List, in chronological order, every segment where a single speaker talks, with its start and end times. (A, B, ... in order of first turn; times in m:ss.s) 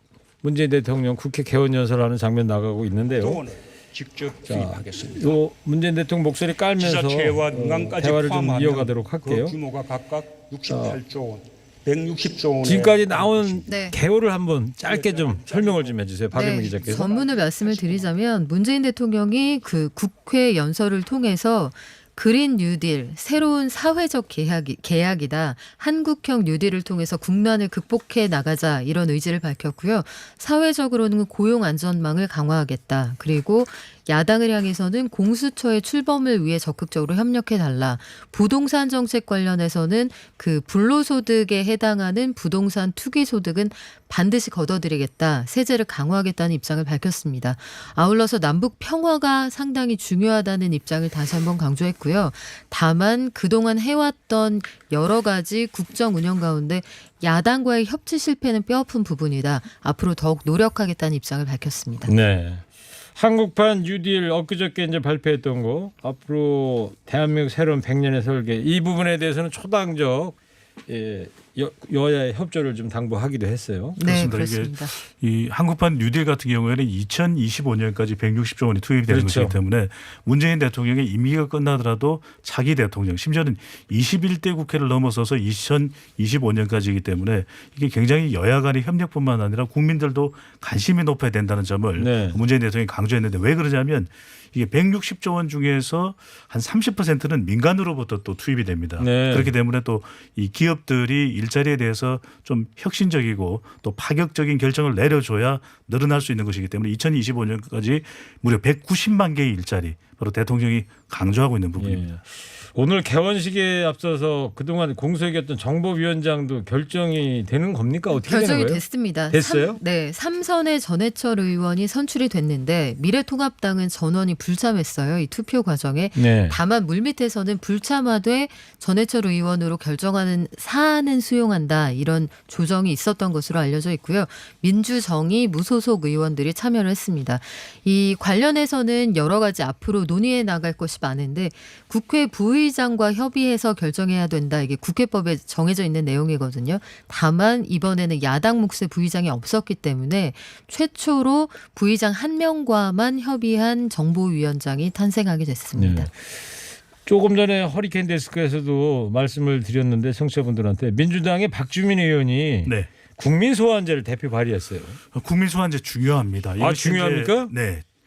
0:00.4-0:03.4 A
0:03.2-0:05.4 B
0:04.4-0:09.6 A
0:06.8-0:13.7 B
0:10.7-0:11.0 A
0:12.6-0:17.1 A
0:13.7-0:14.0 C
0:14.8-0:16.0 B
0:16.3-1:02.1 C
0:16.5-0:18.1 B
1:02.0-1:10.4 A
1:10.9-1:14.0 A
1:14.0-1:14.9 C
1:14.0-1:52.0 D
1:19.1-1:19.6 A
1:32.0-1:32.4 A
1:39.0-1:39.5 A
1:51.8-1:59.8 A
1:58.1-2:36.1 C
2:06.2-2:06.6 A
2:35.8-2:36.4 A
2:37.0-2:45.0 A
2:42.6-2:42.9 D
2:45.1-2:47.8 D
2:46.6-2:47.5 A